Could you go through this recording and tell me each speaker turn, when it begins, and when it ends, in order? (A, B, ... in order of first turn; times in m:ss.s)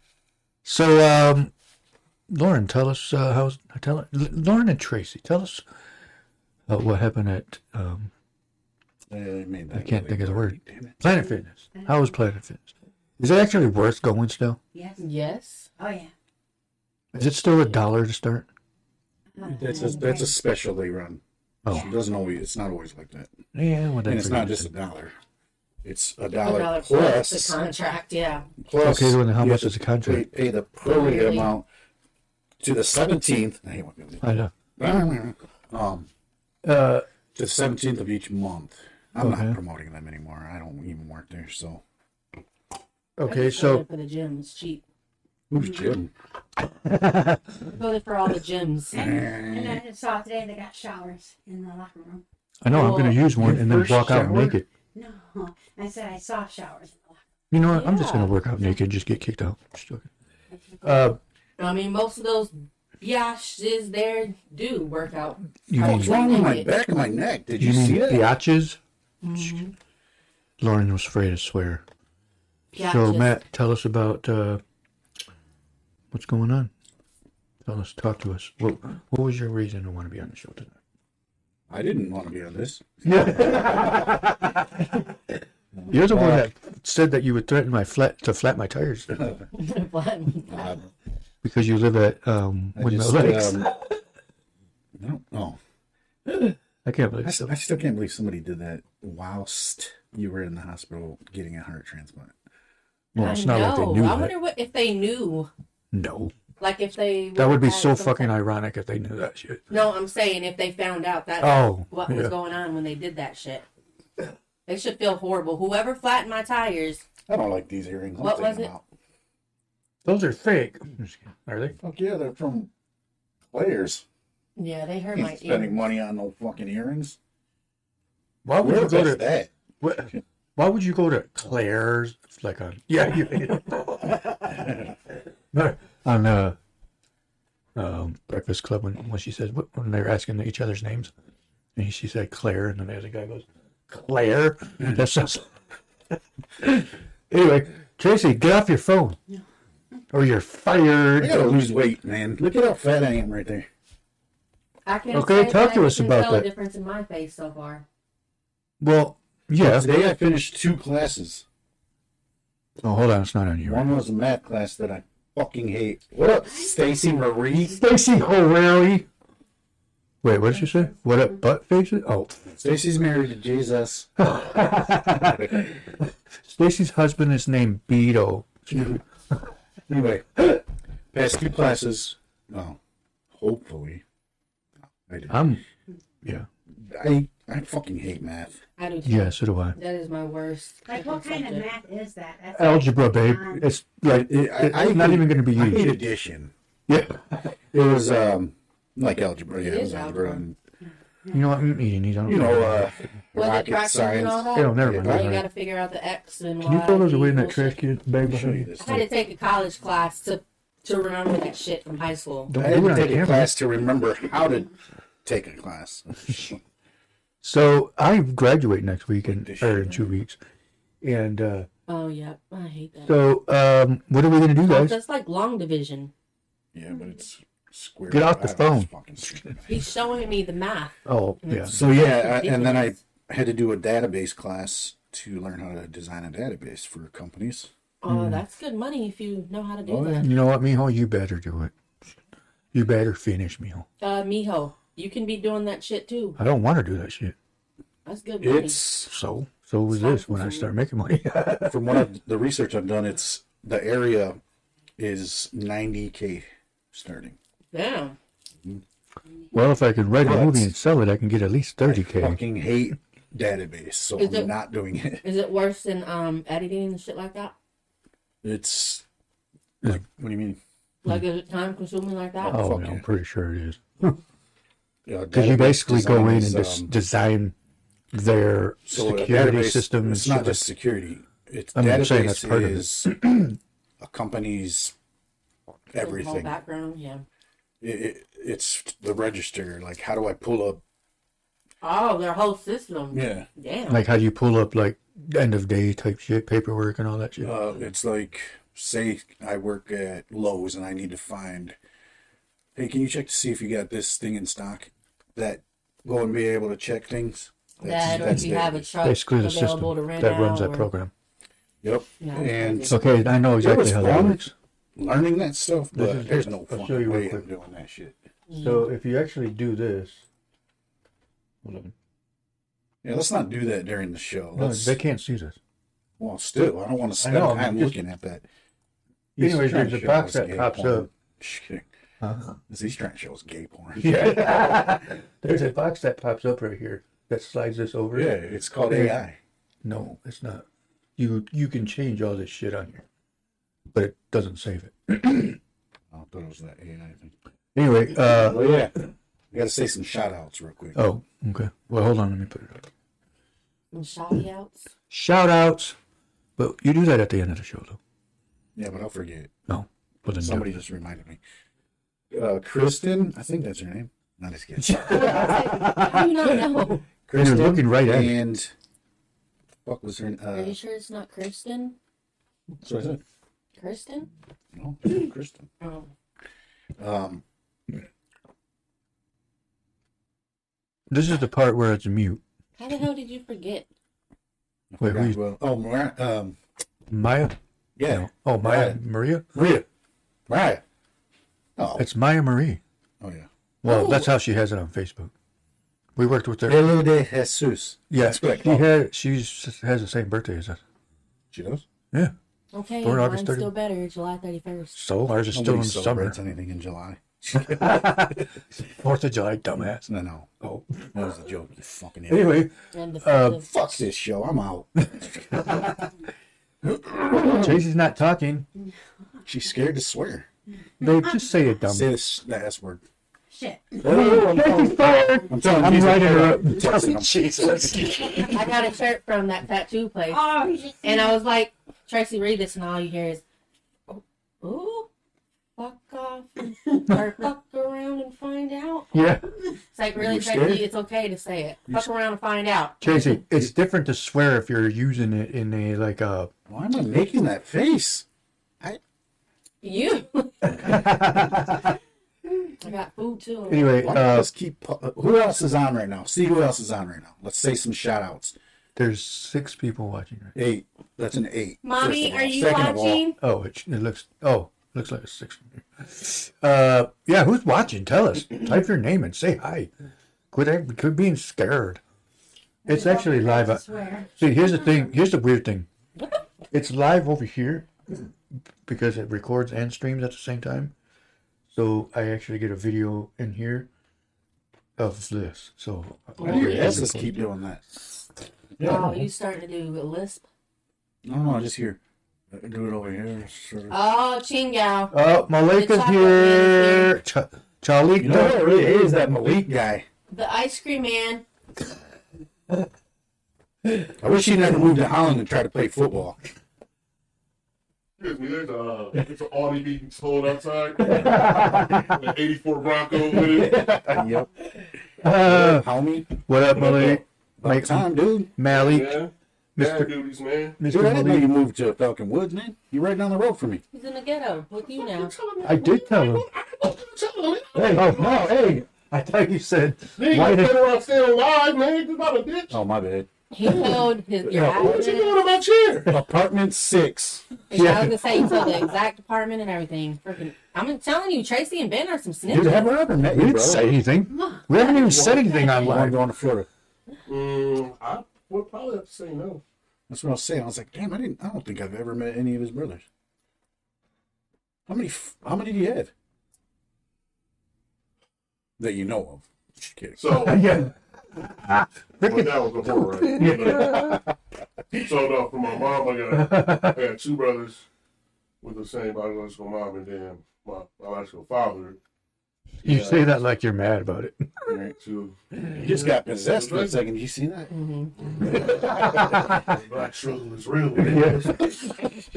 0:00.6-0:01.5 A
0:02.3-0:05.6 A
0:06.7-0:08.1 A
0:09.1-0:11.0 B
0:09.7-0:14.6 A
0:11.7-0:12.1 C
0:14.7-0:15.1 C
0:15.0-0:15.7 D
0:15.8-0:16.1 C
0:17.1-0:18.5 A
0:19.3-0:20.3 C
0:19.4-0:23.3 B
0:21.6-0:21.9 A
0:23.5-0:24.7 A
0:24.0-0:25.2 B
0:25.8-0:27.6 B
0:26.4-0:28.5 D
0:28.6-0:31.6 B
0:28.8-0:30.3 A
0:30.8-0:31.5 D
0:32.6-0:34.2 B
0:34.2-0:34.5 A
0:34.8-0:36.1 B
0:36.6-0:37.0 A
0:37.3-0:41.8 B
0:39.2-0:39.6 A
0:43.2-0:43.8 A
0:43.2-0:44.8 D
0:45.5-0:46.1 B
0:46.7-0:47.7 A
0:47.7-0:49.0 D
0:48.9-0:52.2 C
0:48.9-0:49.8 B
0:52.6-0:54.7 A
0:52.7-0:53.2 D
0:53.4-0:54.6 B
0:54.9-0:57.2 C
0:57.5-1:00.1 A
0:57.7-0:58.4 D
1:00.5-1:01.1 C
1:00.8-1:01.2 A
1:01.6-1:06.7 D
1:05.7-1:06.2 A
1:05.8-1:08.2 B
1:07.6-1:08.8 A
1:09.2-1:09.7 D
1:10.6-1:11.8 A
1:12.7-1:13.4 D
1:12.8-1:14.6 A
1:16.1-1:16.7 A
1:17.6-1:20.7 A
1:21.7-1:24.2 B
1:23.0-1:29.2 A
1:25.7-1:26.5 B
1:29.2-1:29.4 B
1:29.5-1:30.7 D
1:30.5-1:30.8 B
1:31.4-1:34.0 A
1:32.7-1:33.7 B
1:34.9-1:35.6 B
1:36.3-1:37.5 A
1:37.2-1:42.3 B
1:43.1-1:44.3 A
1:43.2-1:45.5 D
1:45.9-1:46.3 A
1:46.6-1:48.3 D
1:47.4-1:49.6 A
1:49.7-1:53.6 D
1:51.4-1:52.3 A
1:54.7-1:57.0 D
1:57.3-1:58.8 B
1:58.2-1:58.7 D
2:00.0-2:01.7 A
2:01.8-2:02.7 B
2:03.5-2:04.0 B
2:04.6-2:05.8 D
2:05.1-2:07.2 B
2:08.4-2:09.3 A
2:08.6-2:09.5 B
2:09.8-2:14.7 A
2:14.6-2:14.9 B
2:15.5-2:16.6 A
2:17.8-2:21.1 A
2:21.8-2:25.5 A
2:26.6-2:29.2 A
2:30.1-2:31.8 A
2:31.2-2:33.7 B
2:34.8-2:37.8 D
2:35.1-2:36.5 A
2:38.8-2:39.9 A
2:39.6-2:41.4 B
2:42.8-2:43.9 A
2:43.6-2:47.8 B
2:46.5-2:46.8 C
2:47.7-2:49.1 A
2:50.2-2:52.4 A
2:52.5-2:54.1 B
2:54.2-2:59.4 A
2:55.0-2:55.7 B
2:59.9-3:00.6 B
3:01.1-3:02.8 B
3:03.3-3:04.0 B
3:05.1-3:05.4 B
3:05.3-3:05.6 A
3:06.7-3:08.6 B
3:08.8-3:11.7 D
3:09.0-3:09.8 A
3:10.9-3:13.6 C
3:12.5-3:16.0 A
3:14.0-3:16.5 B
3:16.9-3:17.5 A
3:17.7-3:20.6 B
3:19.6-3:20.4 D
3:20.8-3:21.4 C
3:21.3-3:22.9 A
3:22.2-3:25.3 B
3:23.3-3:27.8 D
3:24.5-3:25.4 A
3:26.6-3:29.1 A
3:28.2-3:29.0 B
3:28.8-3:32.5 D
3:32.5-3:33.5 A
3:32.5-3:34.7 B
3:35.2-3:36.6 B
3:37.4-3:40.4 A
3:39.2-3:40.2 B
3:41.0-3:41.7 A
3:41.9-3:43.2 D
3:43.0-3:45.0 A
3:44.6-3:46.1 D
3:46.7-3:49.9 B
3:48.1-3:49.5 A
3:49.7-3:52.9 D
3:51.0-3:51.7 A
3:51.7-3:57.7 B
3:58.0-4:00.2 D
3:58.1-3:58.4 A
3:59.8-4:00.3 B
4:00.2-4:01.7 A
4:02.7-4:03.8 A
4:04.0-4:06.4 D
4:06.4-4:07.3 A
4:08.0-4:08.8 D
4:08.4-4:09.1 B
4:09.1-4:12.1 A
4:09.9-4:10.7 D
4:11.6-4:14.4 B
4:15.0-4:17.4 B
4:17.7-4:18.2 D
4:19.5-4:22.4 A
4:20.2-4:20.7 B
4:21.8-4:25.2 B
4:24.2-4:24.5 D
4:25.2-4:27.5 D
4:28.4-4:29.0 B
4:29.8-4:30.6 B
4:31.0-4:32.6 D
4:32.4-4:33.0 B
4:32.5-4:34.2 A
4:35.0-4:36.9 B
4:35.3-4:37.5 A
4:38.1-4:40.6 A
4:38.8-4:43.3 B
4:41.7-4:43.5 A
4:44.0-4:44.9 B
4:45.9-4:46.5 B
4:46.0-4:47.2 D
4:47.8-4:50.8 B
4:51.8-4:54.0 D
4:53.1-4:53.5 B
4:53.9-4:57.6 A
4:57.4-5:01.8 B
5:02.7-5:08.9 B
5:07.8-5:10.9 D
5:08.1-5:08.4 A
5:09.0-5:11.1 A
5:11.8-5:14.4 B
5:12.2-5:13.0 D
5:12.9-5:14.5 A
5:15.0-5:18.2 B
5:15.9-5:17.4 A
5:18.5-5:18.9 D
5:18.5-5:20.2 A
5:21.6-5:21.9 A
5:23.0-5:25.0 B
5:24.6-5:25.6 A
5:26.2-5:28.4 B
5:27.2-5:28.0 A
5:29.4-5:31.9 B
5:29.4-5:31.1 A
5:32.2-5:32.6 A
5:32.7-5:34.9 B
5:34.0-5:39.2 A
5:38.1-5:39.4 B
5:39.8-5:40.6 A
5:41.2-5:43.0 A
5:43.9-5:45.6 A
5:46.1-5:47.3 B
5:47.7-5:48.8 A
5:48.1-5:48.9 B
5:49.5-5:51.0 B
5:50.9-5:52.9 A
5:53.9-5:54.9 D
5:55.1-5:56.0 A
5:56.6-5:58.0 A
5:58.7-5:59.5 B
5:59.7-6:00.8 A
6:00.3-6:01.4 B
6:02.3-6:05.7 B
6:04.8-6:06.3 A
6:05.1-6:07.0 D
6:07.3-6:08.7 B
6:07.3-6:08.4 A
6:09.8-6:10.8 B
6:10.5-6:12.0 D
6:12.8-6:13.2 B
6:13.8-6:14.3 D
6:14.7-6:15.7 B
6:15.8-6:16.1 D
6:17.0-6:17.4 B
6:21.1-6:22.4 A
6:22.8-6:23.9 D
6:24.9-6:26.6 B
6:25.0-6:25.4 A
6:27.1-6:27.5 A
6:28.0-6:29.0 B
6:28.1-6:29.8 A
6:29.5-6:29.8 B
6:30.5-6:30.8 B
6:31.8-6:32.1 B
6:32.0-6:32.8 A
6:33.2-6:33.5 B
6:33.8-6:35.3 A
6:33.8-6:34.3 D
6:36.2-6:36.8 A
6:36.6-6:38.9 B
6:38.1-6:40.8 A
6:41.5-6:41.8 B
6:42.7-6:45.0 D
6:43.0-6:43.7 A
6:44.9-6:46.4 A
6:45.5-6:48.0 B
6:47.6-6:50.0 A
6:50.0-6:50.5 B
6:50.6-6:51.1 A
6:51.1-6:52.7 B
6:52.3-6:53.6 A
6:52.9-6:53.8 D
6:53.6-6:55.8 B
6:55.2-6:55.9 A
6:56.8-6:57.8 B
6:57.4-6:58.6 A
6:59.4-7:00.5 B
7:01.0-7:02.1 A
7:01.8-7:03.0 B
7:03.5-7:04.3 C
7:04.0-7:08.4 B
7:04.0-7:08.6 A
7:08.5-7:13.4 D
7:10.3-7:11.4 C
7:14.1-7:15.1 D
7:15.8-7:19.1 D
7:19.1-7:19.5 A
7:19.9-7:23.4 D
7:20.1-7:20.8 B
7:23.0-7:26.5 A
7:26.7-7:28.2 B
7:29.8-7:30.8 D
7:30.6-7:31.9 A
7:32.8-7:34.1 D
7:33.7-7:34.5 A
7:34.0-7:38.6 B
7:39.0-7:40.5 A
7:40.5-7:43.2 B
7:41.8-7:43.4 D
7:43.4-7:49.9 A
7:50.5-7:52.0 A
7:52.8-7:53.8 A
7:52.8-7:55.1 C
7:54.4-7:55.9 A
7:56.2-7:56.4 D
7:56.7-7:58.3 A
7:58.8-8:00.9 A
8:01.7-8:03.9 A
8:05.0-8:07.4 A
8:06.4-8:08.2 B
8:08.8-8:09.1 B
8:08.8-8:10.4 D
8:08.8-8:09.3 A
8:11.2-8:12.0 B
8:12.5-8:13.9 B
8:13.9-8:15.1 D
8:15.1-8:18.9 A
8:15.6-8:17.2 D
8:18.2-8:20.1 B
8:20.3-8:21.4 D
8:24.2-8:26.4 B
8:28.2-8:33.8 E
8:31.0-8:32.2 A
8:33.3-8:33.7 A
8:33.5-8:34.5 B
8:35.2-8:35.9 A
8:35.3-8:36.3 B
8:36.4-8:39.2 A
8:36.7-8:37.2 E
8:37.6-8:38.5 B
8:38.6-8:40.8 E
8:39.8-8:40.2 A
8:40.8-8:41.5 A
8:40.9-8:43.8 B
8:43.9-8:45.3 D
8:44.8-8:48.4 E
8:45.6-8:46.5 A
8:47.7-8:50.8 A
8:47.9-8:48.8 B
8:50.2-8:52.8 E
8:52.7-8:53.3 B
8:53.5-8:55.4 D
8:53.6-8:56.1 E
8:54.5-8:55.0 B
8:56.1-8:57.5 B
8:57.7-9:02.9 D
8:57.7-8:58.5 A
9:02.5-9:04.0 B
9:03.2-9:06.2 A
9:04.3-9:05.6 C
9:05.7-9:06.7 B
9:07.2-9:09.6 E
9:10.1-9:13.0 B
9:14.9-9:16.1 B
9:18.8-9:20.5 B
9:20.2-9:20.6 E
9:20.3-9:24.2 A
9:22.2-9:24.2 E
9:24.9-9:27.8 E
9:26.3-9:27.0 A
9:28.6-9:32.0 E
9:32.8-9:34.7 A
9:32.8-9:33.3 E
9:34.7-9:34.9 B
9:35.0-9:37.0 E
9:35.7-9:37.7 B
9:37.7-9:38.1 D
9:38.2-9:41.8 E
9:38.6-9:39.7 A
9:41.0-9:42.1 A